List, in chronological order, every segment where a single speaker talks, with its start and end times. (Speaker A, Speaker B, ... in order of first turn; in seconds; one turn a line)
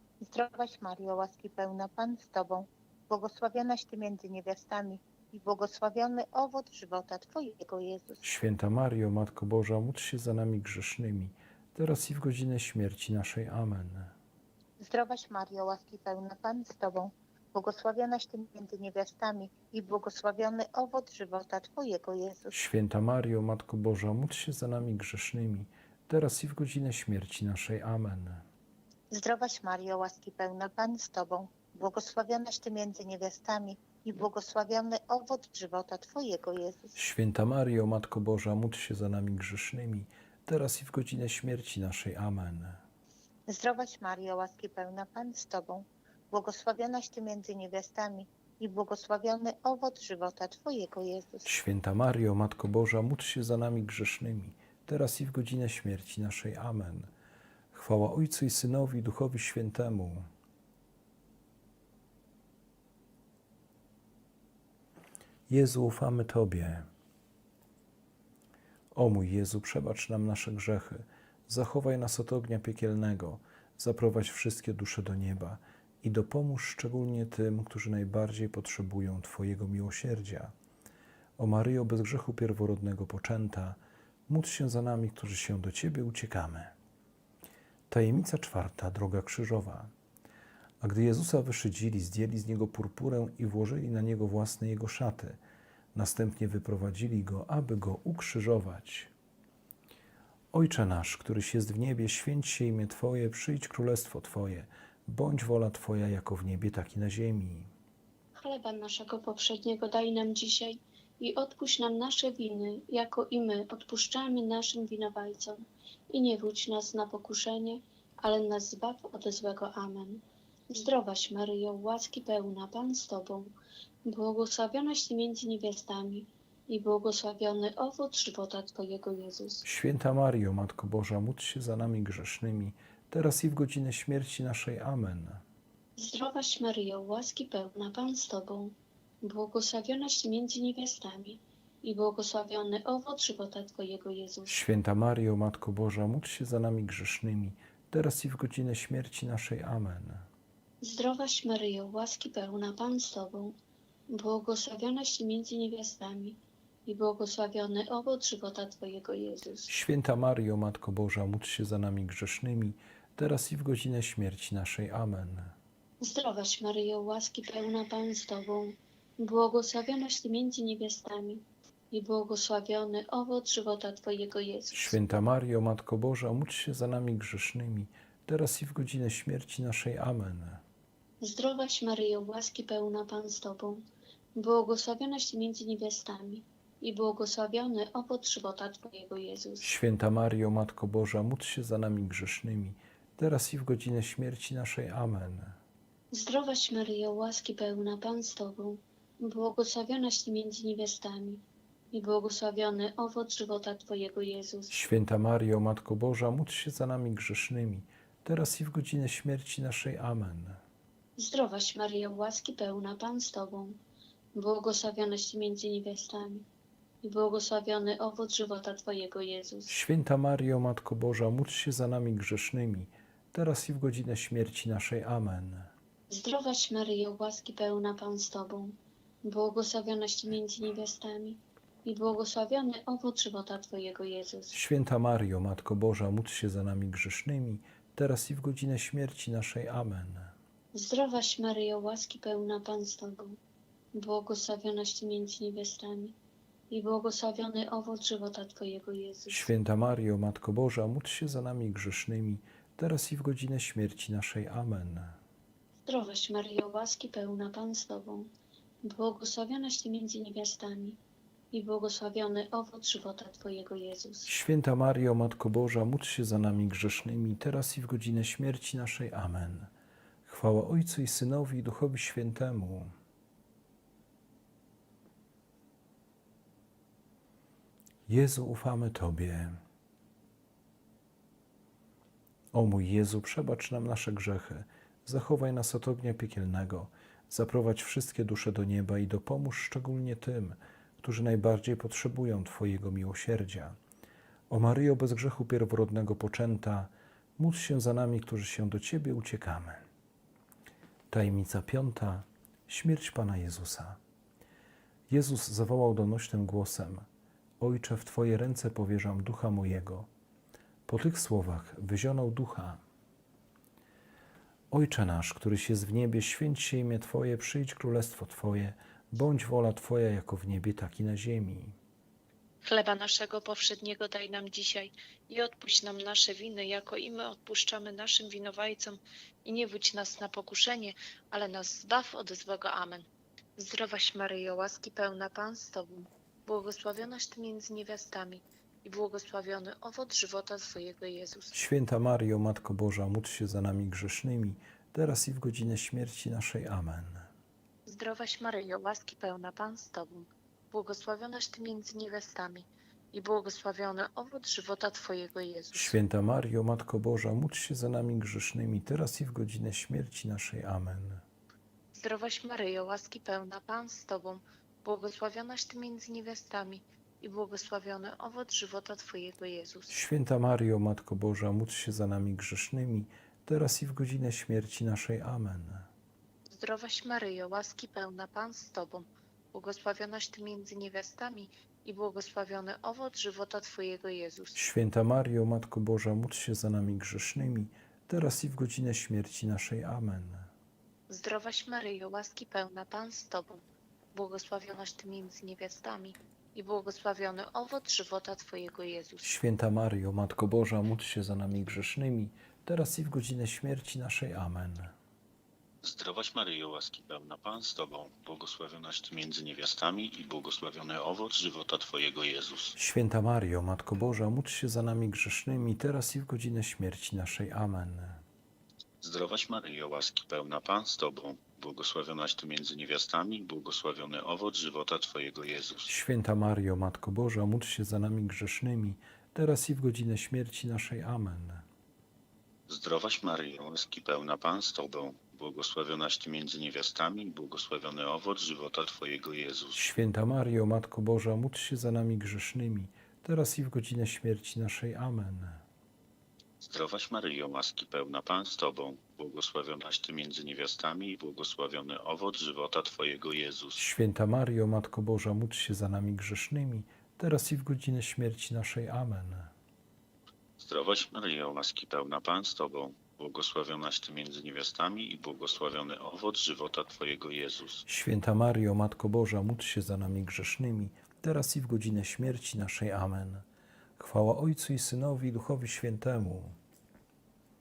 Speaker A: 0.2-8.2
Speaker B: 8.2-14.1
Speaker A: 14.8-22.6
Speaker B: 22.5-28.4
Speaker A: 29.1-37.0
Speaker B: 37.0-42.8
Speaker A: 43.5-51.5
Speaker B: 51.5-57.1
Speaker B: 57.7-60.3
Speaker B: 65.5-66.9
Speaker B: 68.9-80.5
Speaker B: 81.4-86.7
Speaker B: 87.9-89.9
Speaker B: 90.8-95.4
Speaker B: 95.9-99.1
Speaker B: 100.5-107.7
Speaker C: 108.4-129.7
Speaker B: 129.6-135.4
Speaker C: 136.0-144.6
Speaker B: 144.5-150.3
Speaker C: 150.8-153.6
Speaker C: 154.1-159.7
Speaker B: 159.7-165.6
Speaker C: 166.0-175.0
Speaker B: 174.7-180.6
Speaker C: 181.2-183.8
Speaker C: 184.4-189.7
Speaker B: 189.6-195.6
Speaker C: 196.1-204.7
Speaker B: 204.7-210.6
Speaker C: 211.2-213.8
Speaker C: 214.3-216.5
Speaker C: 217.0-219.8
Speaker B: 219.7-225.7
Speaker C: 226.1-234.6
Speaker B: 234.5-240.3
Speaker C: 240.7-243.4
Speaker C: 243.9-246.2
Speaker C: 246.7-249.5
Speaker B: 249.3-255.2
Speaker C: 255.9-258.3
Speaker C: 258.8-261.0
Speaker C: 261.5-264.3
Speaker B: 264.3-269.7
Speaker B: 270.3-272.9
Speaker B: 278.1-279.6
Speaker B: 282.5-293.8
Speaker B: 294.5-299.9
Speaker B: 301.1-304.0
Speaker B: 305.1-307.1
Speaker B: 307.6-310.1
Speaker B: 310.9-312.8
Speaker B: 314.7-321.8
Speaker D: 322.6-341.6
Speaker B: 341.5-347.3
Speaker D: 347.9-356.0
Speaker B: 355.7-361.2
Speaker D: 361.9-370.0
Speaker B: 369.9-375.9
Speaker D: 376.5-384.6
Speaker B: 384.6-390.5
Speaker D: 391.1-399.4
Speaker B: 399.2-404.9
Speaker E: 405.8-412.8
Speaker B: 412.8-418.2
Speaker E: 419.0-425.9
Speaker B: 425.9-431.7
Speaker E: 432.7-439.8
Speaker B: 439.8-445.6
Speaker E: 446.6-453.8
Speaker B: 453.8-459.5
Speaker E: 460.6-467.8
Speaker B: 467.9-473.5
Speaker B: 474.0-476.6